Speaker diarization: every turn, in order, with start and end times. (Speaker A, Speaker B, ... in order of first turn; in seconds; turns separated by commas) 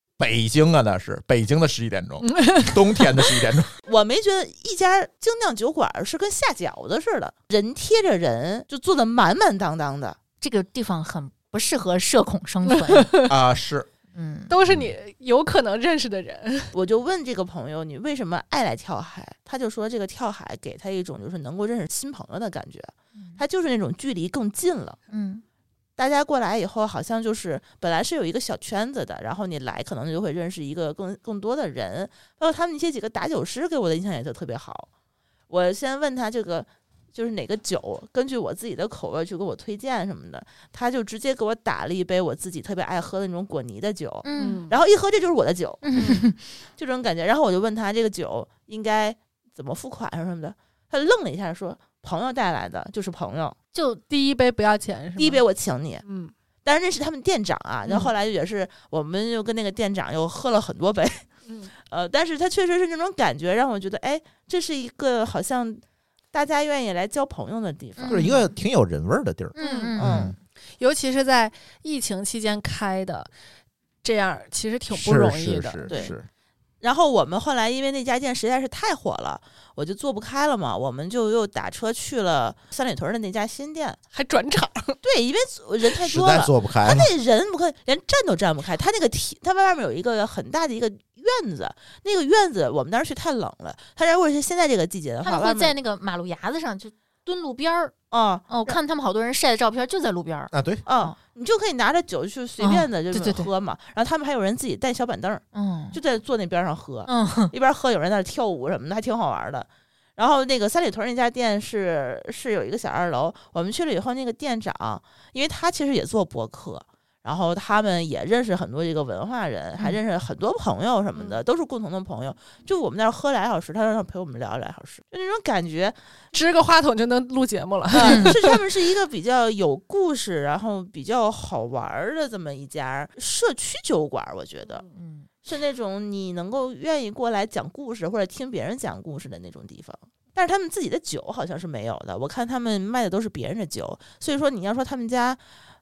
Speaker A: 0.2-3.7, Speaker B: 2.2-3.0, Speaker C: 3.9-10.2, Speaker D: 10.4-13.1, Speaker B: 12.7-13.3, Speaker A: 13.3-13.9, Speaker D: 14.2-14.5, Speaker B: 14.5-16.7, Speaker A: 14.7-14.9, Speaker C: 16.7-25.0, Speaker D: 25.1-25.4, Speaker C: 26.0-34.9, Speaker C: 35.5-53.6, Speaker D: 44.2-44.6, Speaker B: 44.4-44.8, Speaker D: 45.8-46.4, Speaker D: 53.7-54.0, Speaker B: 54.1-55.4, Speaker C: 55.2-56.0, Speaker B: 56.0-56.3, Speaker C: 56.6-61.3, Speaker B: 61.5-61.7, Speaker C: 61.9-65.8, Speaker C: 66.3-68.3, Speaker D: 68.0-68.5, Speaker A: 68.1-70.3, Speaker D: 69.5-70.3, Speaker B: 69.6-70.0, Speaker C: 70.0-70.3, Speaker B: 70.8-73.3, Speaker B: 74.0-75.9, Speaker A: 74.9-76.3, Speaker C: 75.9-76.2, Speaker C: 76.8-84.0, Speaker B: 84.1-85.0, Speaker C: 85.0-95.7, Speaker A: 86.0-87.1, Speaker D: 95.2-97.9, Speaker C: 98.1-98.8, Speaker D: 98.5-101.2, Speaker A: 100.5-100.8, Speaker C: 100.9-126.0, Speaker D: 102.6-103.5, Speaker D: 105.5-106.0, Speaker D: 107.1-107.5, Speaker B: 121.2-121.4, Speaker B: 126.3-128.6, Speaker C: 127.9-134.8, Speaker D: 128.0-128.3, Speaker D: 134.9-135.3, Speaker C: 135.4-145.4